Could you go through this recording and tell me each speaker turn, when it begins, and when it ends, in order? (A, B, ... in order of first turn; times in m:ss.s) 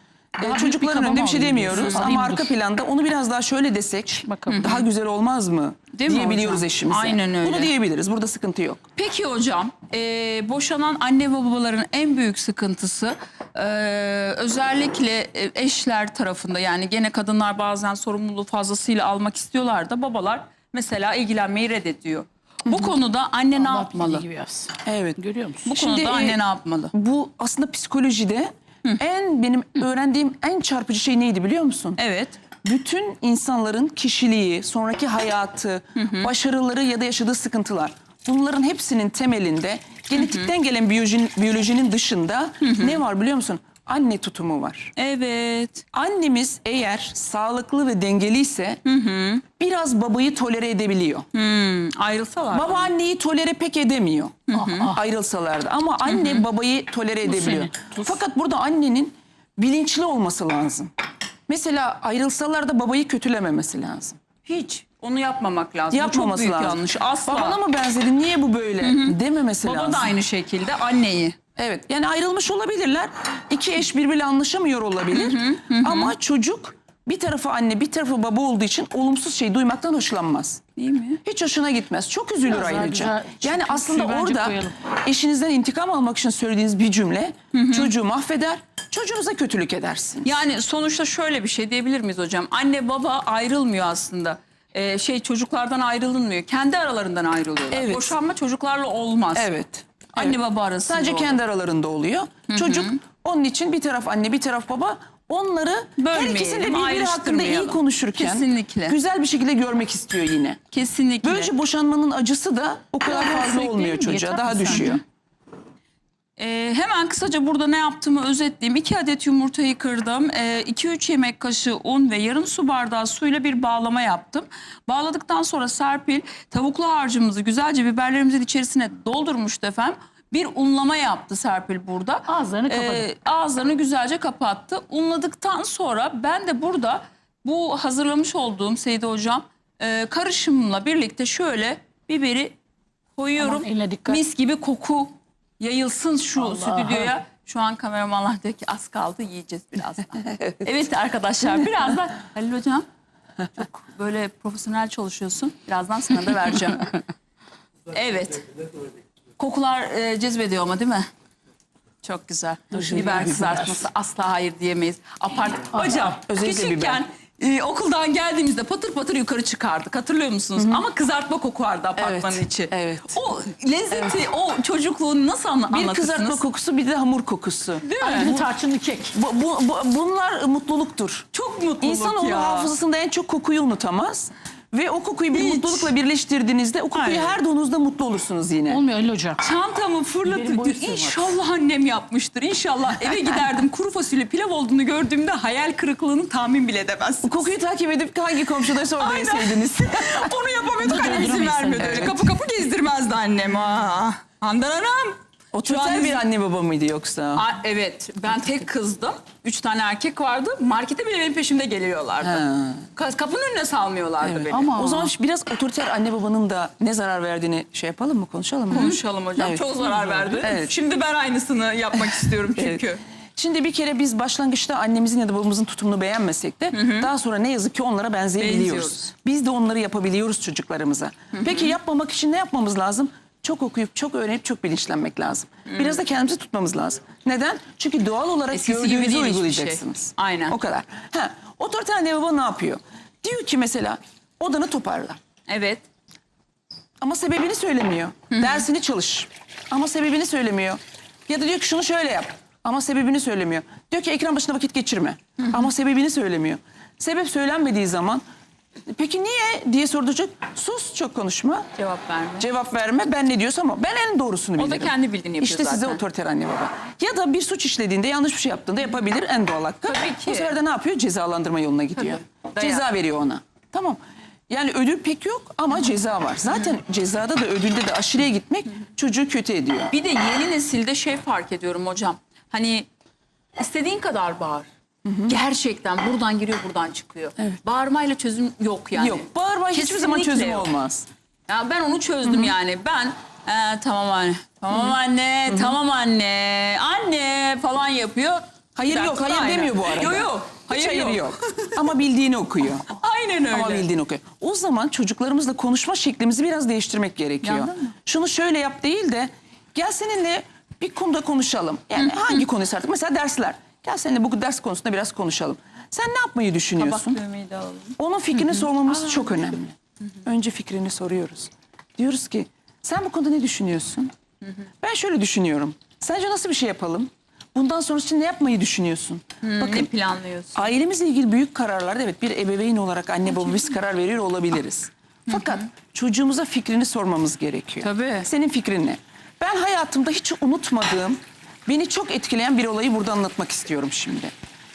0:00.4-0:08.8 A
0:00.4-0:02.5 B
0:01.7-0:02.0 C
0:04.2-0:04.8 B
0:04.5-0:04.8 C
0:05.9-0:07.7 C
0:09.0-0:24.2 C
0:23.6-0:25.7 B
0:24.8-0:26.4 A
0:25.6-0:26.9 C
0:26.9-0:32.0 A
0:32.0-0:32.4 C
0:32.6-0:44.9 A
0:36.0-0:36.3 C
0:40.2-0:40.5 C
0:42.6-0:43.0 C
0:45.0-0:45.8 C
0:45.9-0:48.8 A
0:48.8-0:49.4 C
0:49.6-0:51.2 A
0:51.3-0:52.9 C
0:52.5-1:00.9 A
0:54.5-0:55.0 C
0:54.5-0:55.0 B
0:56.0-0:56.4 C
0:57.3-0:58.1 B
1:01.5-1:04.2 A
1:04.4-1:07.6 C
1:05.9-1:10.1 A
1:08.8-1:11.4 C
1:11.6-1:20.6 A
1:15.1-1:16.1 C
1:20.8-1:21.2 C
1:21.2-1:30.4 A
1:22.4-1:24.8 B
1:27.5-1:27.9 C
1:30.2-1:39.5 C
1:37.7-1:38.1 A
1:39.3-1:50.6 A
1:40.1-1:41.4 C
1:42.5-1:43.0 C
1:46.0-1:49.0 C
1:50.7-1:51.5 C
1:51.2-1:55.0 A
1:53.0-1:55.0 B
1:56.4-2:22.5 C
2:12.3-2:13.1 B
2:23.2-2:32.8 C
2:23.4-2:24.2 B
2:26.6-2:27.1 A
2:33.5-2:37.0 C
2:37.9-2:38.5 C
2:39.4-2:41.1 C
2:42.0-2:56.4 C
2:42.7-2:43.8 A
2:45.8-2:46.0 B
2:46.0-2:47.0 A
2:50.6-2:50.8 A
2:52.0-2:53.2 A
2:53.9-2:54.2 A
2:55.7-2:58.5 A
2:57.8-2:58.3 C
2:58.0-2:59.2 B
2:59.1-3:01.3 A
3:01.3-3:02.7 C
3:01.8-3:08.8 A
3:05.3-3:05.9 C
3:06.9-3:07.4 C
3:08.7-3:09.4 B
3:09.4-3:17.4 C
3:10.2-3:11.3 B
3:17.2-3:22.2 A
3:18.9-3:26.2 C
3:20.8-3:22.2 B
3:25.5-3:27.4 A
3:27.3-3:32.4 C
3:32.2-3:32.9 A
3:32.9-3:34.7 C
3:34.2-3:40.7 A
3:34.5-3:35.1 B
3:38.7-3:43.0 C
3:42.1-3:42.8 A
3:43.4-4:05.2 A
3:46.7-3:47.1 C
3:48.4-3:49.1 C
3:51.3-3:51.7 C
3:55.6-3:56.0 C
3:58.5-4:00.6 C
4:05.5-4:05.8 C
4:07.0-4:18.2 A
4:08.3-4:08.6 C
4:18.9-4:21.7 A
4:21.8-4:22.5 C
4:22.4-4:39.9 A
4:24.6-4:26.0 C
4:29.8-4:30.6 C
4:32.0-4:32.8 C
4:39.9-4:42.9 C
4:43.6-4:44.7 C
4:45.0-4:45.4 A
4:45.2-4:50.7 C
4:49.0-4:51.0 A
4:51.5-5:01.8 C
4:52.2-4:52.5 A
4:55.5-4:55.7 A
4:58.8-5:03.0 A
5:02.9-5:03.9 C
5:03.5-5:17.2 A
5:07.4-5:07.9 C
5:16.8-5:19.4 C
5:18.0-5:24.1 A
5:24.8-5:29.9 A
5:29.4-5:30.7 C
5:30.5-5:44.3 A
5:35.3-5:35.6 C
5:37.8-5:38.3 C